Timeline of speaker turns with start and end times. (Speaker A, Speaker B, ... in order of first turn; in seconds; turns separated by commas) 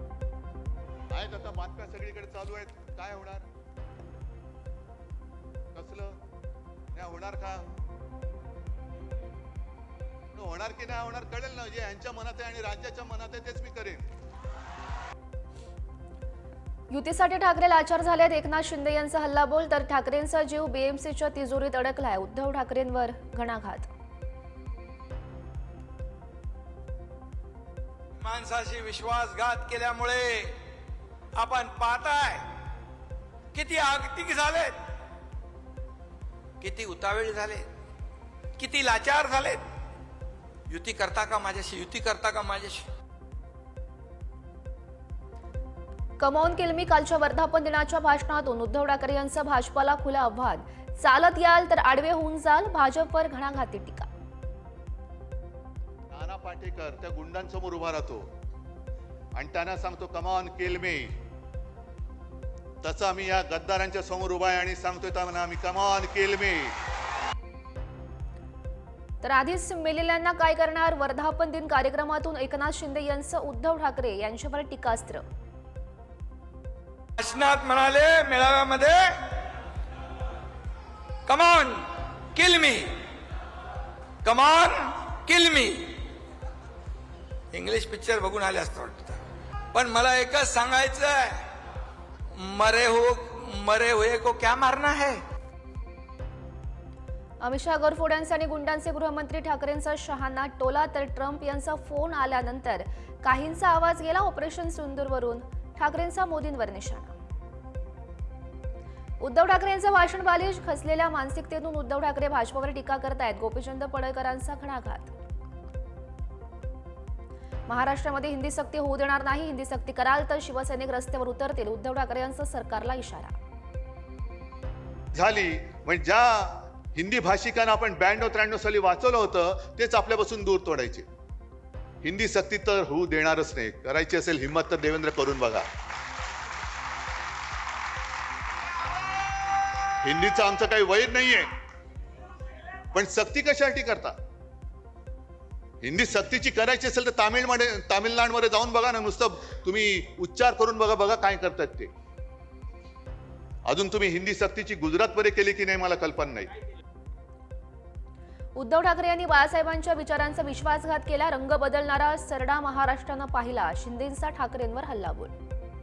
Speaker A: 1.1-3.5, Speaker A: 5.7-6.2, Speaker A: 6.9-7.7, Speaker A: 10.3-14.1, Speaker B: 16.9-23.9, Speaker C: 28.2-30.6, Speaker C: 31.4-32.5, Speaker C: 33.5-34.8, Speaker C: 36.6-37.7, Speaker C: 38.6-39.6, Speaker C: 40.7-42.9, Speaker B: 46.2-54.1, Speaker A: 56.1-58.3, Speaker A: 59.4-61.2, Speaker A: 62.8-66.8, Speaker B: 69.2-75.2, Speaker C: 77.2-79.5, Speaker C: 81.3-83.0, Speaker C: 84.2-86.1, Speaker C: 87.5-89.2, Speaker C: 89.7-91.5, Speaker C: 92.3-95.2, Speaker B: 97.4-107.1, Speaker B: 109.2-115.1, Speaker B: 117.7-123.3, Speaker A: 125.1-131.1, Speaker A: 132.0-135.7, Speaker A: 140.0-141.5, Speaker A: 142.9-144.2, Speaker A: 145.8-151.9, Speaker A: 153.7-156.5, Speaker B: 158.6-165.3